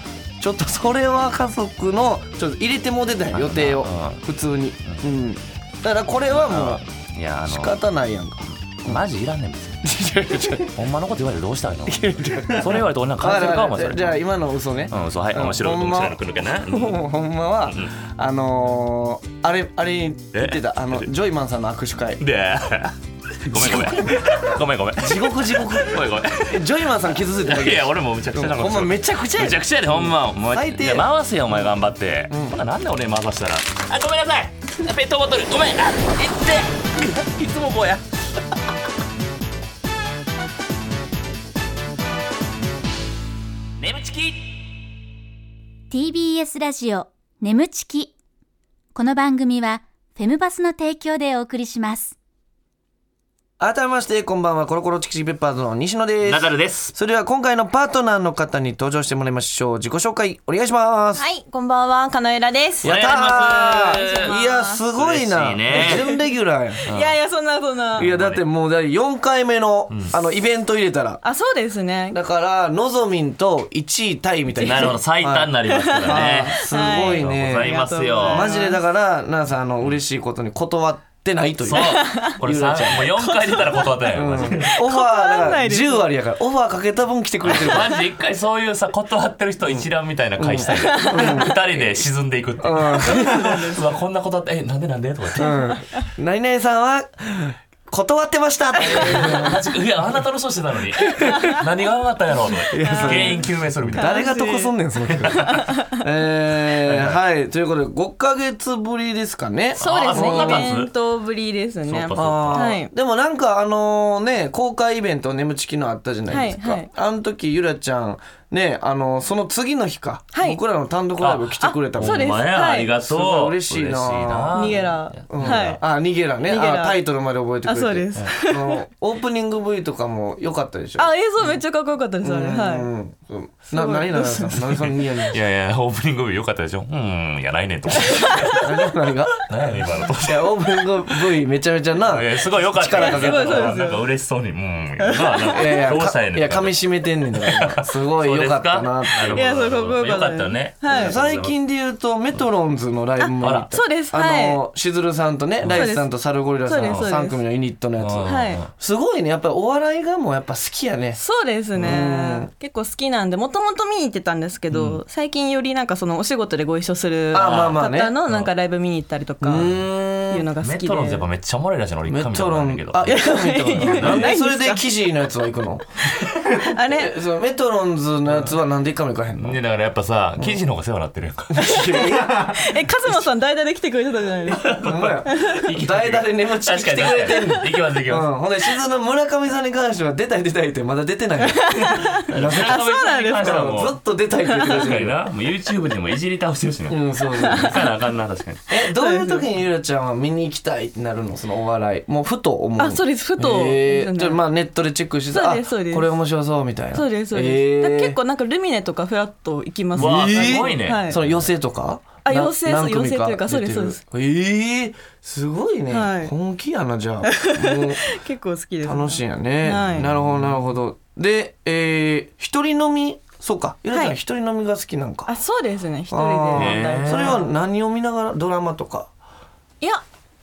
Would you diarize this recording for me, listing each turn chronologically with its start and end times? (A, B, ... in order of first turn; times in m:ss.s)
0:00.4-0:06.8 A
0:03.3-0:04.2 B
0:06.3-0:07.8 B
0:07.5-0:09.0 A
0:08.8-0:10.0 B
0:09.8-0:10.8 A
0:10.5-0:14.2 B
0:11.9-0:22.2 A
0:14.9-0:17.1 B
0:20.3-0:21.0 B
0:22.2-0:26.7 B
0:23.5-0:24.4 A
0:25.0-0:31.7 A
0:27.2-0:38.0 B
0:32.3-0:32.6 A
0:43.8-0:44.7 B
0:45.9-0:48.1 C
0:49.0-0:52.2 C
0:53.6-1:01.2 A
0:56.2-0:56.9 B
1:01.2-1:04.8 D
1:02.8-1:04.3 B
1:02.8-1:06.8 A
1:04.9-1:06.0 B
1:05.7-1:06.2 D
1:06.8-1:08.1 D
1:06.9-1:07.2 B
1:08.0-1:08.4 B
1:08.0-1:11.2 A
1:11.2-1:12.2 D
1:12.1-1:23.1 A
1:14.6-1:18.5 B
1:14.6-1:14.9 D
1:15.7-1:18.8 D
1:21.6-1:24.7 B
1:21.8-1:22.4 D
1:23.1-1:26.0 D
1:24.1-1:28.0 A
1:27.4-1:35.7 B
1:30.4-1:31.9 A
1:30.7-1:31.5 D
1:32.6-1:33.6 A
1:32.9-1:33.8 D
1:35.4-1:39.6 A
1:35.6-1:36.0 D
1:38.8-1:44.2 B
1:38.9-1:39.4 D
1:41.1-1:41.4 A
1:41.2-1:41.6 D
1:42.7-1:50.7 A
1:42.8-1:43.4 D
1:44.0-1:44.7 D
1:45.2-1:45.4 B
1:45.3-1:46.0 D
1:46.8-1:47.2 B
1:49.8-1:50.9 B
1:49.8-1:52.9 D
1:51.9-1:52.8 B
1:52.2-2:02.4 A
1:56.3-1:56.9 D
2:00.3-2:00.6 D
2:01.2-2:05.8 B
2:01.6-2:02.9 D
2:03.0-2:11.6 A
2:04.5-2:05.8 D
2:06.4-2:07.0 D
2:07.7-2:08.8 D
2:11.0-2:12.9 D
2:12.2-2:15.4 A
2:13.7-2:14.9 D
2:15.3-2:18.7 B
2:18.1-2:18.6 D
2:18.6-2:19.5 A
2:19.4-2:21.2 B
2:20.2-2:23.8 A
2:22.0-2:26.8 B
2:23.0-2:24.0 D
2:25.0-2:25.9 D
2:25.5-2:29.6 A
2:27.4-2:31.6 B
2:29.3-2:31.2 D
2:30.9-2:41.2 A
2:33.4-2:33.7 B
2:33.7-2:34.6 D
2:35.6-2:35.9 B
2:35.7-2:36.1 D
2:36.6-2:37.4 D
2:36.8-2:37.1 B
2:38.0-2:38.7 B
2:38.3-2:38.6 D
2:41.2-2:51.2 D
2:41.8-2:42.5 A
2:44.7-2:45.0 B
2:47.3-2:48.2 A
2:47.3-2:48.5 B
2:49.4-2:50.5 A
2:50.6-2:53.2 B
2:52.1-2:55.8 A
2:53.0-2:54.8 D
2:53.8-2:54.4 B
2:56.4-2:59.6 A
2:56.6-2:57.2 D
2:58.3-2:58.5 B
2:59.4-3:01.7 B
3:01.6-3:02.6 A
3:01.6-3:05.6 D
3:04.5-3:08.3 B
3:04.8-3:12.8 A
3:11.4-3:13.8 D
3:12.0-3:14.0 B
3:13.4-3:15.2 A
3:14.5-3:14.8 D
3:14.6-3:18.6 B
3:16.9-3:17.9 A
3:17.4-3:17.7 D
3:18.7-3:28.2 A
3:19.0-3:19.5 D
3:22.8-3:24.4 D
3:25.3-3:26.2 D
3:26.9-3:31.2 D
3:29.9-3:31.5 B
3:30.0-3:38.2 A
3:32.2-3:34.0 D
3:35.9-3:36.3 D
3:37.3-3:40.1 D
3:38.8-3:45.3 A
3:39.9-3:40.6 B
3:45.3-3:47.5 D
3:46.1-3:49.1 A
3:46.5-3:47.4 B